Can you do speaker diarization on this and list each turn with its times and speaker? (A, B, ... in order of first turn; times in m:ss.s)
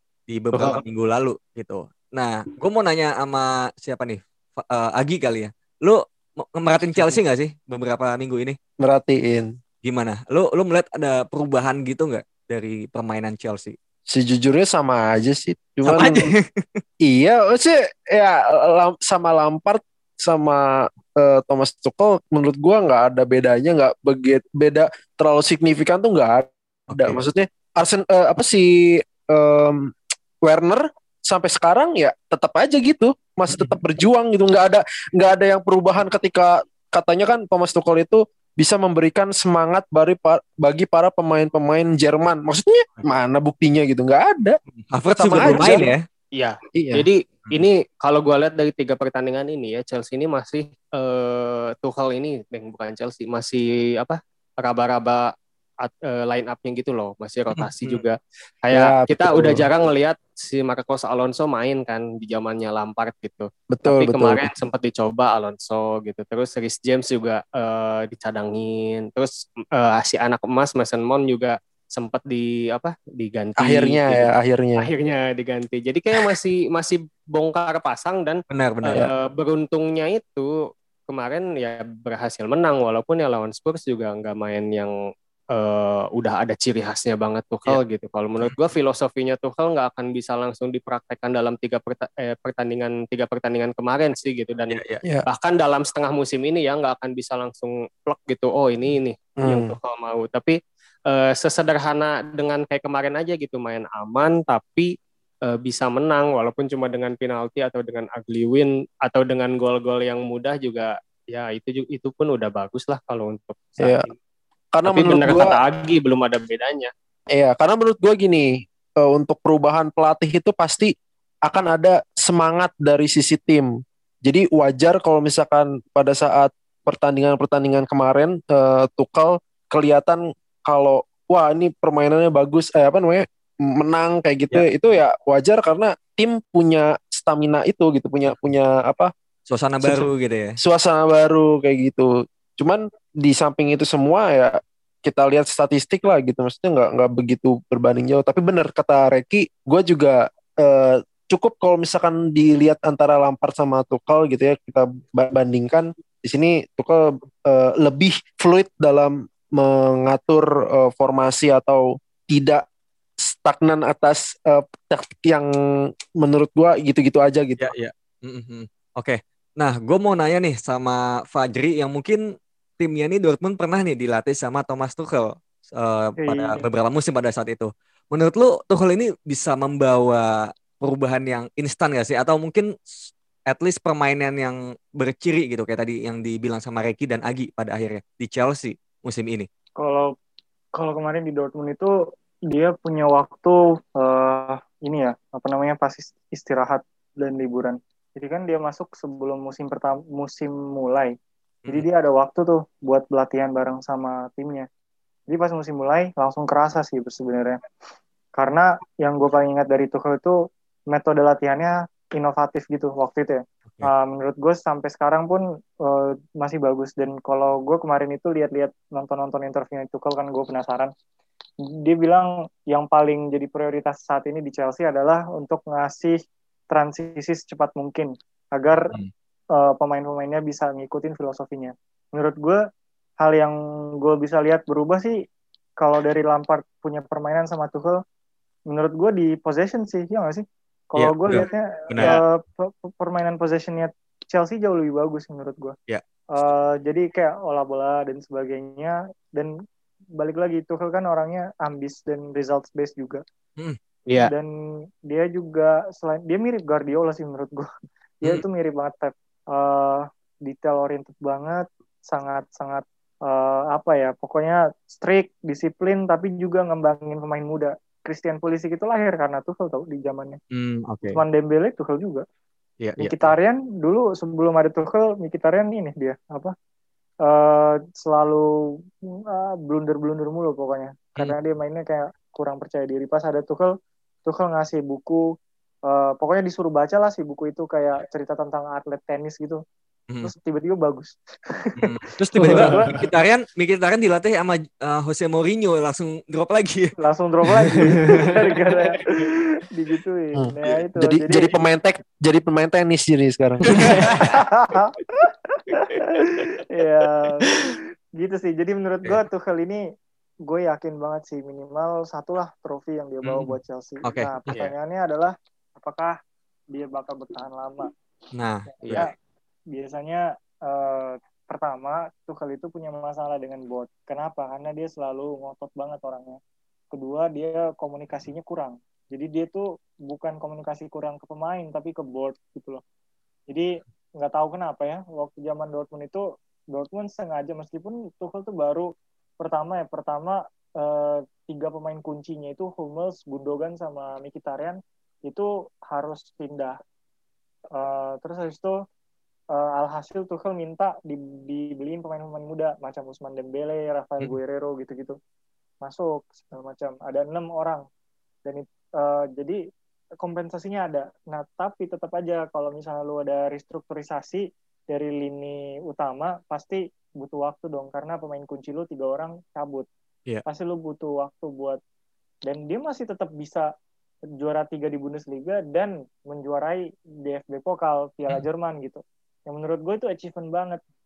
0:00.3-0:08.6 A
0:00.5-0:00.8 B
0:08.8-0:09.5 C
0:09.8-0:13.8 A
0:14.1-0:16.2 C
0:15.8-0:16.8 A
0:17.0-0:29.9 C
0:26.9-0:27.2 A
0:30.4-0:44.6 C
0:33.5-0:33.8 A
0:44.9-0:46.0 A
0:45.2-0:45.9 C
0:46.4-0:55.3 B
0:46.8-0:47.0 C
0:55.8-1:14.3 B
0:57.5-0:58.0 A
0:58.7-0:59.6 C
1:03.7-1:04.4 C
1:13.6-1:14.9 C
1:14.8-1:20.5 B
1:18.5-1:19.0 A
1:21.1-1:24.9 B
1:25.5-1:40.6 B
1:34.7-1:35.0 A
1:39.4-1:39.7 C
1:41.1-1:44.9 B
1:45.5-1:54.1 B
1:53.8-1:54.0 C
1:54.7-1:55.6 C
1:54.8-1:56.9 B
1:57.3-1:58.5 C
1:59.0-2:00.9 C
2:01.4-2:03.7 C
2:04.2-2:19.1 C
2:19.5-2:20.5 A
2:19.8-2:20.1 C
2:20.6-2:42.6 C
2:43.2-2:45.5 C
2:46.2-2:47.7 C
2:47.6-2:52.2 A
2:52.8-3:02.8 A
2:56.2-2:56.6 D
3:03.5-3:09.5 A
3:09.8-3:10.1 D
3:10.8-3:11.9 D
3:12.5-3:21.1 D
3:21.7-3:24.7 D
3:25.3-3:27.6 D
3:28.4-3:30.4 D
3:30.9-3:40.9 D
3:41.8-3:46.2 D
3:46.7-3:48.9 D
3:49.6-3:52.6 D
3:53.2-3:55.2 D
3:55.8-3:58.0 D
3:58.7-4:05.8 D
4:01.0-4:02.2 A
4:05.9-4:06.5 A
4:06.3-4:09.5 D
4:10.2-4:13.2 D
4:14.2-4:14.5 D
4:15.1-4:17.7 D
4:18.2-4:30.4 D
4:30.5-4:31.2 A
4:31.1-4:32.2 D
4:32.8-4:33.3 A
4:33.0-4:36.5 D
4:37.2-4:38.4 D
4:39.3-4:43.7 D
4:44.2-4:45.2 D
4:45.9-4:49.6 D
4:50.2-4:51.8 D
4:51.8-4:56.9 A
4:52.4-4:53.0 D
4:52.4-4:52.9 B
4:57.0-5:01.5 D
4:57.7-4:58.4 A
4:57.8-4:58.3 B
5:00.4-5:03.6 C
5:03.6-5:04.4 B
5:03.8-5:09.8 D
5:10.4-5:16.1 D
5:13.2-5:14.7 A
5:16.7-5:17.9 D
5:18.3-5:19.1 A
5:18.8-5:19.1 B
5:19.7-5:26.4 D
5:26.9-5:32.8 D
5:33.5-5:38.9 D
5:39.4-5:46.8 D
5:47.8-5:48.8 D
5:49.5-5:55.2 D
5:55.8-5:57.8 D
5:58.4-5:59.6 D
6:00.2-6:09.9 D
6:10.4-6:11.8 D
6:12.4-6:13.7 D
6:14.4-6:20.8 D